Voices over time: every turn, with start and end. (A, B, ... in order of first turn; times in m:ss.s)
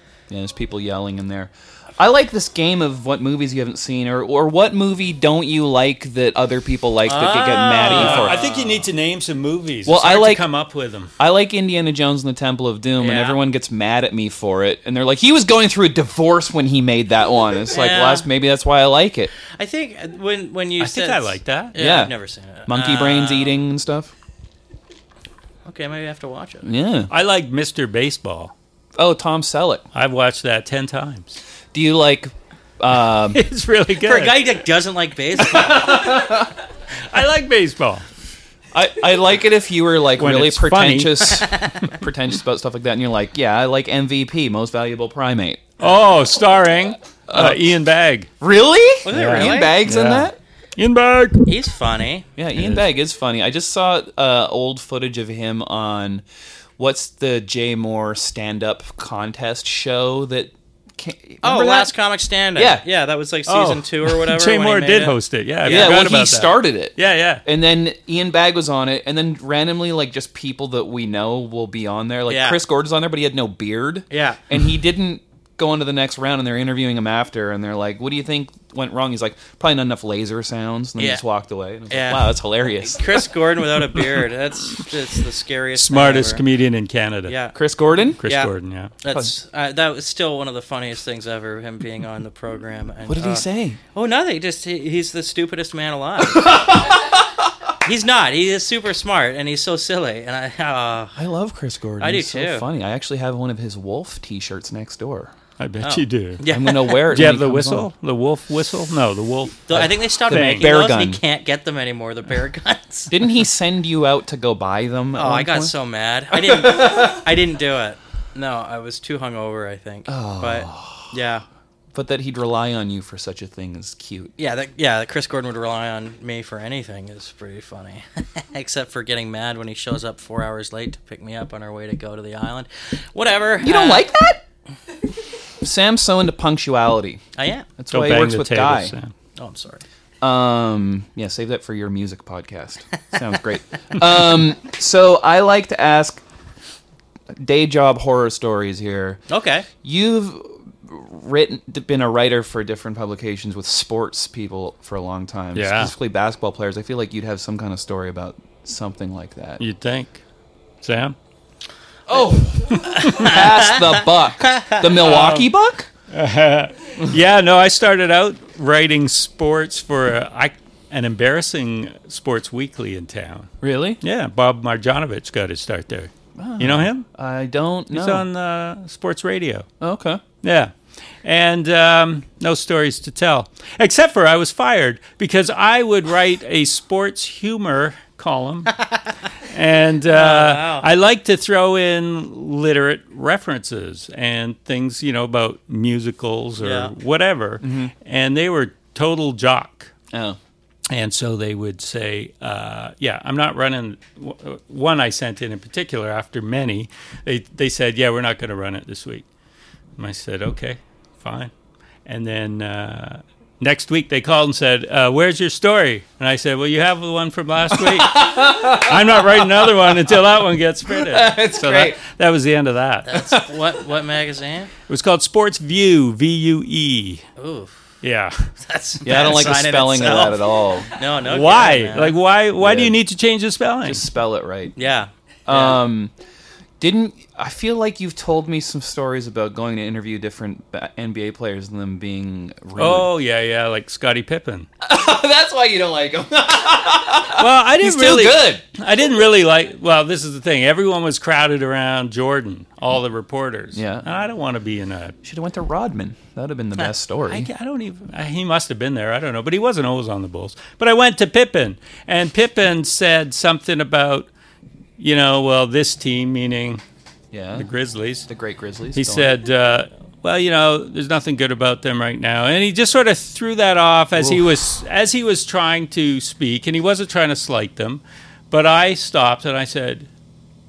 0:00.3-0:08.5 A
0:07.0-0:08.9 B
0:07.8-0:11.1 C
0:09.8-0:10.4 A
0:11.2-0:19.3 A
0:13.0-0:13.4 B
0:17.7-0:18.3 B
0:19.5-0:23.6 B
0:20.8-0:21.7 C
0:21.7-0:22.1 A
0:22.7-0:24.1 A
0:25.6-0:26.7 B
0:26.6-0:27.1 A
0:27.1-0:28.5 C
0:29.0-0:29.8 A
0:29.9-0:31.4 C
0:31.7-0:33.4 A
0:33.3-0:34.4 C
0:34.0-0:36.1 B
0:35.5-0:36.5 A
0:35.6-0:36.5 C
0:37.1-0:38.0 C
0:38.7-0:45.6 A
0:40.2-0:41.5 C
0:41.5-0:41.8 B
0:45.8-0:48.3 C
0:47.3-0:47.7 A
0:48.4-0:50.4 A
0:49.0-0:49.8 B
0:49.1-0:51.5 C
0:51.4-0:52.3 B
0:52.4-0:56.2 A
0:52.5-0:52.9 C
0:56.8-1:01.9 A
1:01.4-1:06.0 B
1:02.6-1:02.8 A
1:03.5-1:07.4 C
1:05.6-1:23.2 A
1:12.3-1:12.6 B
1:14.1-1:14.4 B
1:21.0-1:21.2 B
1:21.9-1:26.4 B
1:25.8-1:27.4 C
1:27.3-1:27.5 B
1:27.5-1:28.2 A
1:28.2-1:28.9 C
1:28.2-1:36.7 B
1:33.1-1:33.8 A
1:36.3-1:37.2 A
1:37.8-1:41.2 B
1:41.2-1:45.3 A
1:42.0-1:42.6 B
1:45.6-1:46.4 C
1:45.8-1:47.0 B
1:46.5-1:47.9 A
1:47.0-1:50.7 C
1:49.7-1:53.2 B
1:49.7-1:51.2 A
1:53.1-1:55.7 A
1:55.1-2:01.4 B
1:56.3-1:57.2 A
2:00.1-2:01.1 A
2:01.9-2:04.3 A
2:04.4-2:14.1 B
2:13.6-2:14.4 A
2:15.6-2:17.2 A
2:17.4-2:17.7 B
2:17.8-2:18.9 A
2:17.9-2:19.1 C
2:19.4-2:19.8 B
2:20.2-2:26.2 A
2:27.3-2:29.2 A
2:29.3-2:29.7 B
2:29.8-2:39.6 A
2:35.5-2:35.9 C
2:39.6-2:40.2 C
2:40.8-2:41.1 C
2:42.1-2:45.9 A
2:42.7-2:43.3 C
2:42.8-2:44.9 B
2:44.8-2:45.5 C
2:46.1-2:53.5 C
2:53.6-2:54.0 A
2:54.0-2:57.0 C
2:56.4-2:58.3 A
2:57.9-2:59.6 C
2:59.8-3:00.2 A
3:00.4-3:00.7 C
3:01.2-3:08.8 C
3:08.8-3:09.0 B
3:09.4-3:19.9 C
3:10.1-3:10.9 B
3:16.6-3:16.9 B
3:17.6-3:17.9 A
3:20.1-3:20.4 A
3:20.9-3:29.2 C
3:30.0-3:31.5 C
3:32.0-3:43.1 C
3:37.7-3:40.2 A
3:40.9-3:42.0 A
3:43.0-3:44.7 B
3:44.9-3:47.2 C
3:47.4-3:47.8 B
3:48.0-3:48.5 C
3:48.6-3:52.2 B
3:49.0-3:50.9 A
3:51.2-3:54.0 C
3:52.6-3:53.0 A
3:53.8-3:54.7 A
3:54.8-3:55.8 B
3:55.4-3:56.1 A
3:56.8-4:03.1 A
4:02.8-4:04.7 C
4:04.8-4:08.6 A
4:07.3-4:15.1 C
4:13.7-4:14.0 A
4:15.2-4:17.5 A
4:17.3-4:24.3 C
4:25.0-4:26.8 C
4:27.3-4:27.7 A
4:27.6-4:28.3 C
4:28.3-4:29.4 A
4:28.9-4:40.1 C
4:34.1-4:34.4 A